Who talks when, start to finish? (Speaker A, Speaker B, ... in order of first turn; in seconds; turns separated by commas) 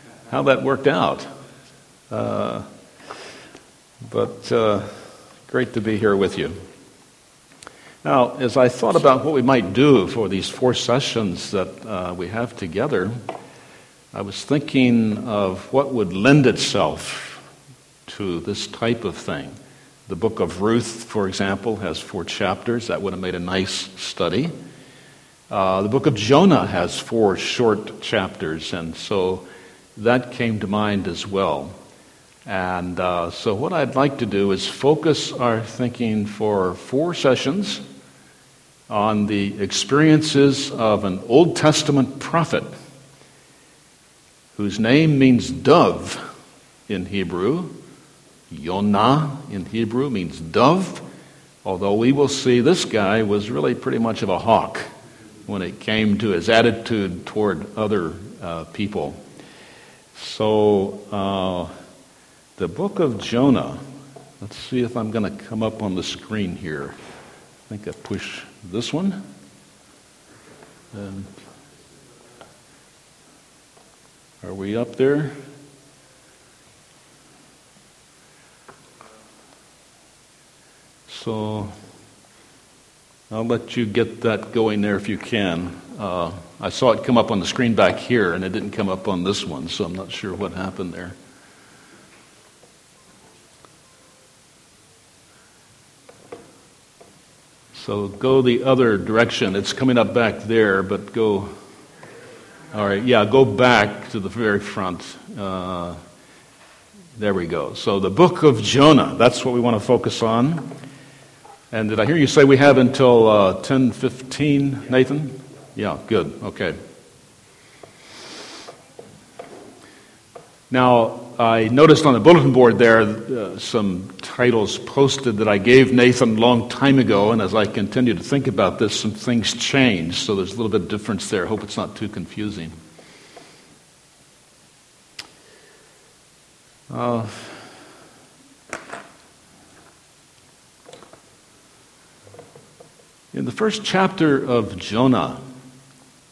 Speaker A: 0.3-1.3, Speaker A: 2.1-2.7, Speaker A: 4.1-5.0, Speaker A: 5.5-6.6, Speaker A: 8.0-13.2, Speaker A: 14.1-17.4, Speaker A: 18.1-24.5, Speaker A: 25.5-31.8, Speaker A: 32.5-37.8, Speaker A: 38.9-42.7, Speaker A: 44.5-46.2, Speaker A: 46.9-47.8, Speaker A: 48.5-51.0, Speaker A: 51.6-54.9, Speaker A: 55.5-59.2, Speaker A: 60.1-61.7, Speaker A: 62.6-63.8, Speaker A: 64.4-67.0, Speaker A: 67.7-69.2, Speaker A: 70.9-71.3, Speaker A: 74.4-75.3, Speaker A: 81.1-81.7, Speaker A: 83.3-91.2, Speaker A: 97.7-101.5, Speaker A: 102.7-106.0, Speaker A: 107.2-110.7, Speaker A: 111.7-116.8, Speaker A: 120.7-132.8, Speaker A: 136.9-137.7, Speaker A: 143.3-145.4